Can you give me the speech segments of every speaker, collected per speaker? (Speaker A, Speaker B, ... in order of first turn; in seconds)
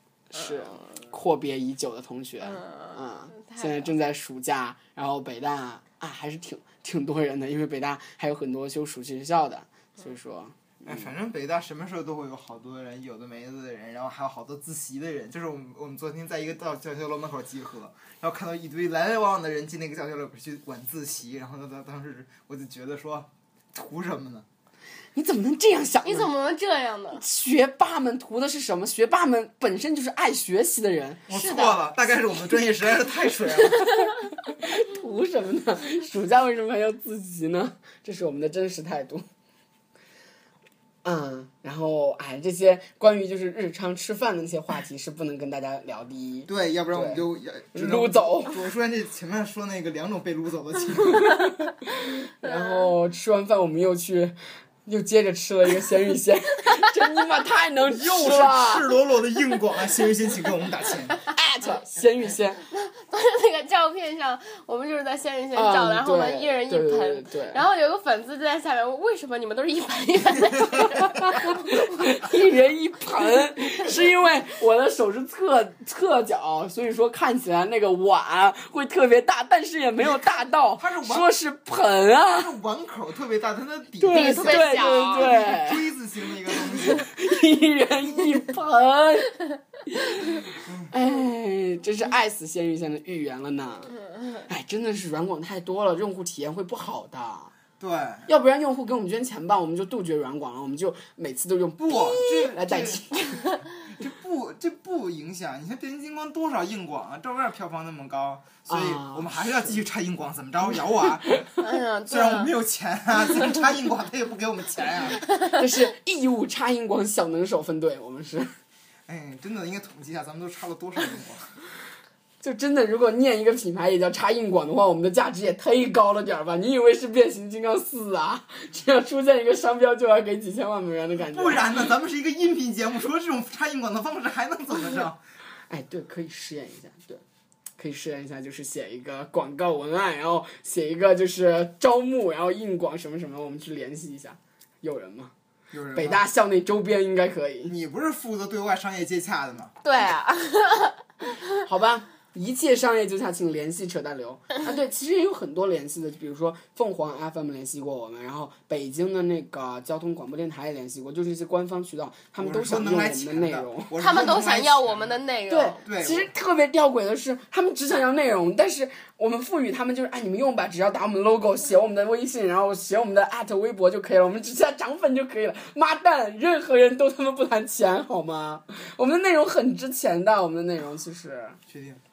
Speaker A: 0.3-11.1, 25.1-26.3, 27.2-31.3, 34.4-39.2, 41.0-48.6, 51.1-58.9, 61.3-62.6, 65.5-67.6, 71.3-82.5, 84.0-85.9, 86.5-97.5, 98.2-103.5, 108.7-109.5, 115.3-118.5, 122.4-131.7, 135.7-137.2, 137.8-145.3, 145.9-147.7, 151.6-163.9, 165.5-181.6
Speaker B: 0.3-0.8, 2.4-3.9, 26.0-27.2, 31.3-31.8, 52.4-52.9, 62.7-72.3, 84.1-85.3, 111.6-112.5, 115.4-115.7, 149.8-151.4, 164.0-165.8
Speaker C: 10.8-24.4, 31.3-33.9, 46.5-51.4, 57.9-61.2, 80.8-81.3, 82.3-87.0, 90.6-90.9, 97.8-98.3, 101.8-103.2, 104.0-111.5, 112.1-115.2, 119.1-121.5, 131.3-135.2, 145.7-146.2, 147.7-149.7, 162.4-165.2, 165.8-166.3, 181.7-182.0